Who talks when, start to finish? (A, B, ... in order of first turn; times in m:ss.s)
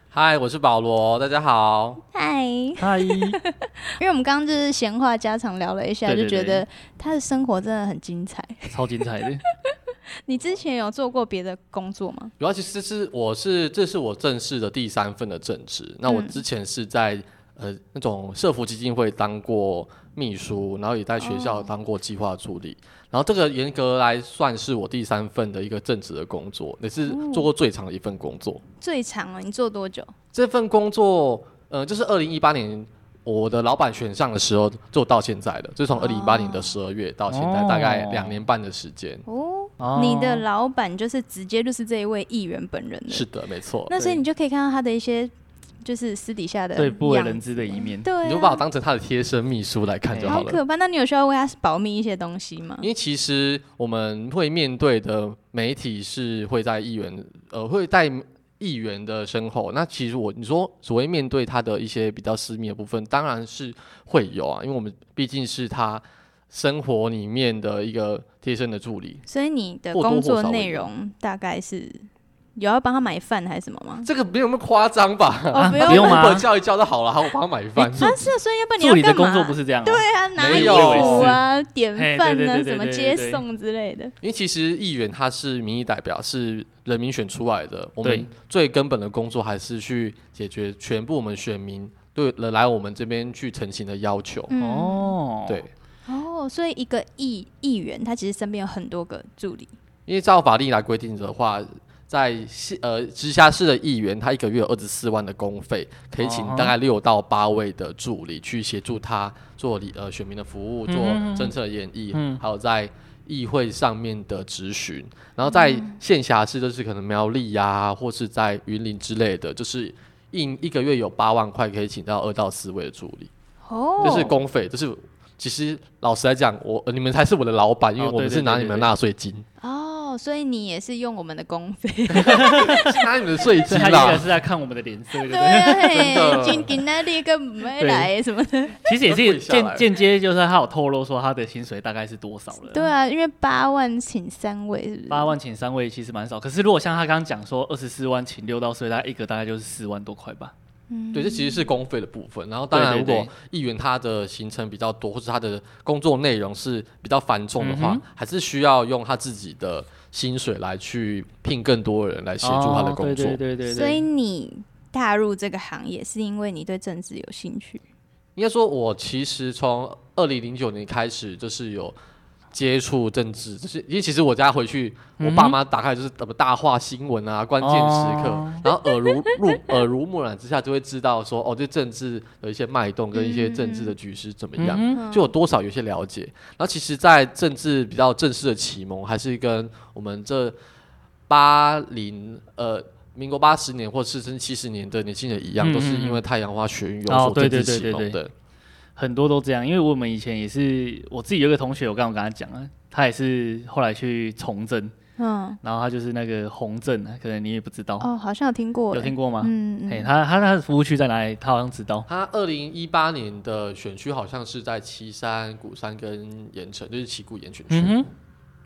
0:00.1-0:02.0 A
0:02.1-0:03.4 B
0:02.8-0:03.4 C
0:04.0-0:09.0 B
0:06.0-0:06.6 C
0:08.7-0:09.4 C
0:10.2-0:12.3 B
0:12.4-0:28.6 A
0:16.0-0:16.4 B
0:21.2-0:21.7 B
0:27.0-0:27.5 B
0:28.8-0:30.1 B
0:30.3-0:39.2 A
0:35.9-0:36.8 B
0:37.3-0:38.4 C
0:39.3-0:43.2 B
0:39.8-0:40.4 C
0:43.1-0:43.9 A
0:43.9-0:45.3 B
0:45.8-0:48.6 B
0:46.8-0:48.1 C
0:48.2-0:50.6 A
0:50.1-0:50.4 C
0:50.2-0:52.8 B
0:52.8-1:09.2 A
1:09.2-1:14.1 B
1:09.9-1:10.9 A
1:14.0-1:18.1 A
1:15.5-1:16.2 B
1:15.6-1:16.4 C
1:17.8-1:21.4 C
1:18.0-1:24.1 B
1:20.4-1:21.4 A
1:21.9-1:23.4 C
1:24.2-1:34.5 A
1:28.0-1:28.3 C
1:34.5-1:35.2 B
1:34.6-1:35.6 C
1:36.1-1:39.7 B
1:40.1-2:03.3 A
1:46.2-1:46.7 C
1:50.9-1:51.5 C
1:52.1-1:52.4 C
1:55.4-1:55.9 B
2:03.6-2:04.4 B
2:04.0-2:09.4 A
2:08.0-2:08.9 C
2:09.6-2:13.0 B
2:12.2-2:12.8 C
2:12.6-2:14.3 A
2:13.7-2:16.8 C
2:15.2-2:18.8 B
2:15.9-2:16.7 A
2:17.7-2:18.1 C
2:18.8-2:22.9 C
2:19.0-2:19.9 A
2:22.7-2:25.3 B
2:25.1-2:30.5 C
2:30.9-2:31.6 B
2:31.1-2:43.4 A
2:32.7-2:33.3 C
2:37.6-2:38.0 C
2:42.4-2:44.0 C
2:43.6-2:47.8 B
2:48.4-2:51.9 A
2:52.5-3:10.6 A
2:55.2-2:55.6 C
2:57.6-2:58.7 C
2:58.7-2:59.3 B
3:03.1-3:03.9 B
3:04.6-3:05.0 C
3:04.9-3:05.3 B
3:11.3-3:18.3 A
3:15.6-3:16.2 C
3:17.1-3:18.2 C
3:19.0-3:24.9 C
3:25.2-3:25.6 B
3:25.6-3:28.1 C
3:28.0-3:30.1 B
3:28.9-3:32.0 C
3:32.1-3:38.0 A
3:37.7-3:38.1 C